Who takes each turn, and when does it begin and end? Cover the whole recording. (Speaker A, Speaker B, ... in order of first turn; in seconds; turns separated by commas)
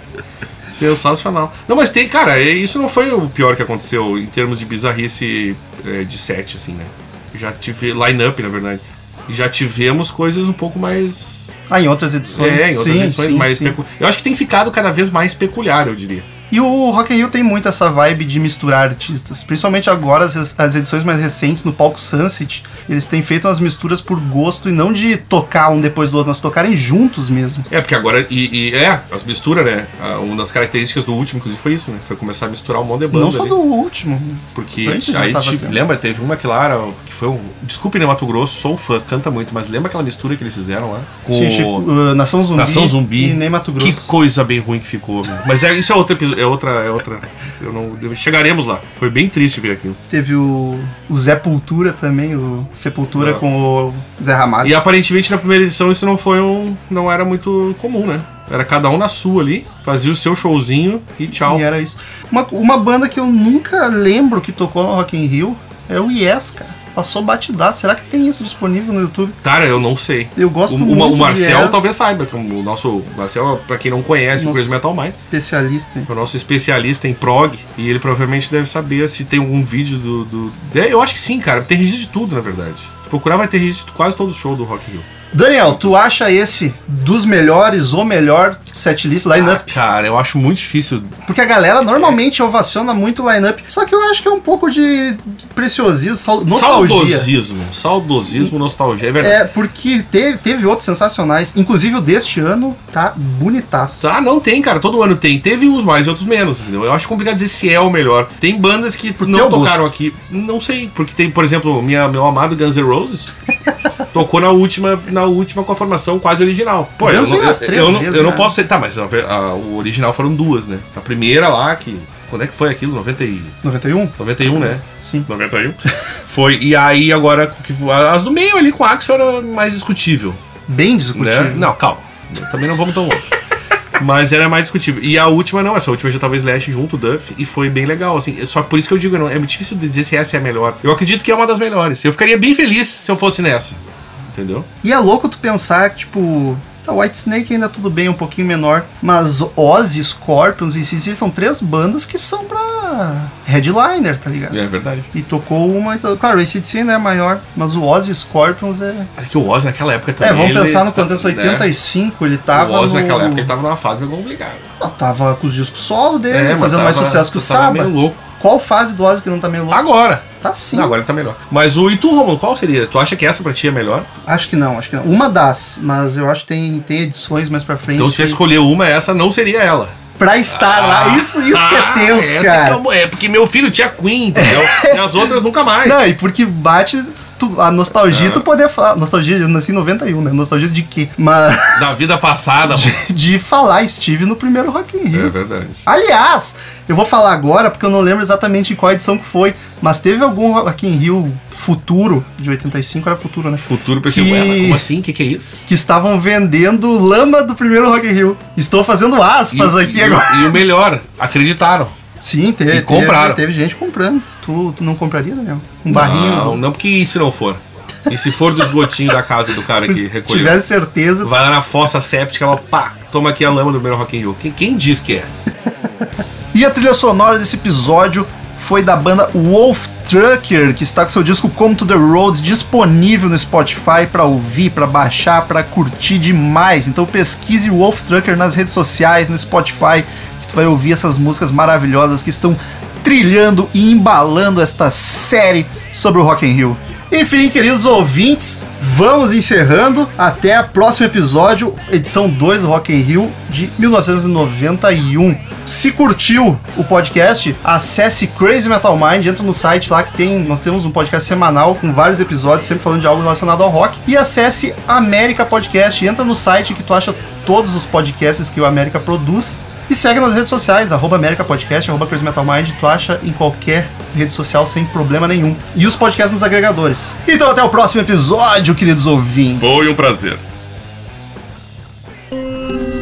Speaker A: 0.7-11.5, Speaker B: 11.7-13.8, Speaker A: 12.4-16.2, Speaker B: 16.5-27.7, Speaker A: 27.7-33.5, Speaker B: 33.1-35.8, Speaker A: 34.5-41.8, Speaker B: 41.3-44.1, Speaker A: 42.6-50.0, Speaker B: 50.1-54.8, Speaker A: 53.1-53.4, Speaker A: 54.6-61.6, Speaker B: 61.4-69.4, Speaker A: 69.4-75.2, Speaker B: 70.3-71.8, Speaker B: 74.3-74.8, Speaker B: 75.3-76.1, Speaker A: 76.1-85.1, Speaker B: 85.3-89.8, Speaker A: 89.4-91.2, Speaker B: 91.3-97.3, Speaker A: 91.9-92.2, Speaker A: 96.5-99.4, Speaker B: 98.2-98.5, Speaker B: 99.2-104.1, Speaker A: 104.0-113.3, Speaker B: 109.2-109.9, Speaker A: 114.1-123.5, Speaker B: 117.0-118.5, Speaker B: 123.6-125.3, Speaker A: 124.2-130.4, Speaker B: 130.7-131.7, Speaker A: 131.1-133.3, Speaker A: 134.0-143.8, Speaker A: 144.3-144.7, Speaker B: 144.8-159.1, Speaker A: 154.5-155.1, Speaker A: 159.2-161.7, Speaker B: 160.2-163.5, Speaker A: 162.5-164.7, Speaker B: 164.8-169.9, Speaker A: 166.3-168.2, Speaker A: 169.7-174.1, Speaker B: 170.4-170.9, Speaker B: 174.2-178.4, Speaker A: 178.0-179.9, Speaker B: 180.2-182.8, Speaker A: 180.5-186.1, Speaker B: 184.3-192.0, Speaker A: 188.1-188.4, Speaker A: 191.8-193.0, Speaker B: 192.6-195.3, Speaker A: 195.1-195.8, Speaker B: 195.8-204.9, Speaker A: 203.6-205.6, Speaker B: 205.7-210.7, Speaker A: 209.5-211.9, Speaker B: 212.2-216.6, Speaker A: 212.7-213.4, Speaker A: 215.9-220.6, Speaker B: 219.8-221.3, Speaker A: 221.2-225.3, Speaker B: 226.5-280.0, Speaker A: 279.6-280.4